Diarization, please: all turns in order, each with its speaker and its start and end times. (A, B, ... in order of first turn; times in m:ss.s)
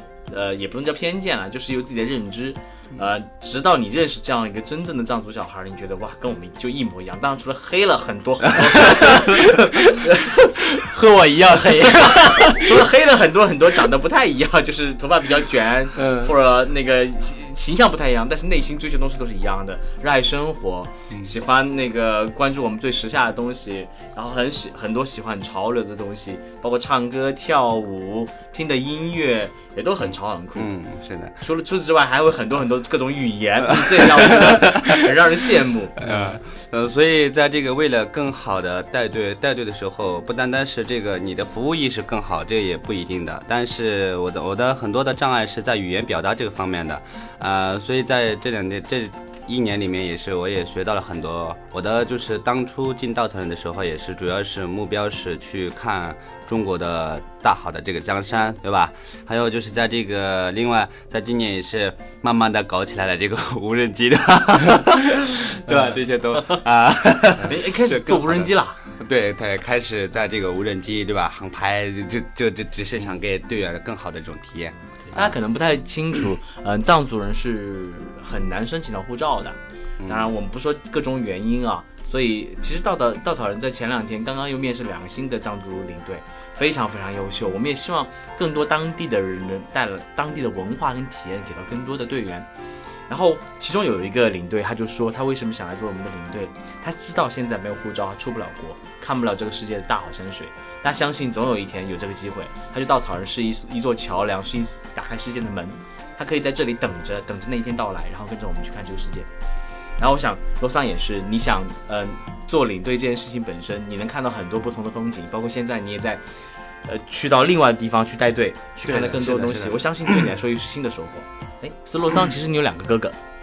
0:00.3-0:10.2 A
0:08.8-0:12.8 B
0:11.9-0:30.7 A
0:16.0-0:16.3 B
0:30.6-0:31.4 C
0:31.4-0:36.3 A
0:33.7-0:35.1 C
0:36.0-1:15.3 C
1:05.7-1:06.6 A
1:07.4-1:08.8 A
1:15.1-1:32.5 A
1:20.0-1:20.3 C
1:33.1-1:49.3 A
1:50.0-1:56.2 A
1:56.8-2:03.2 A
1:58.8-2:00.2 C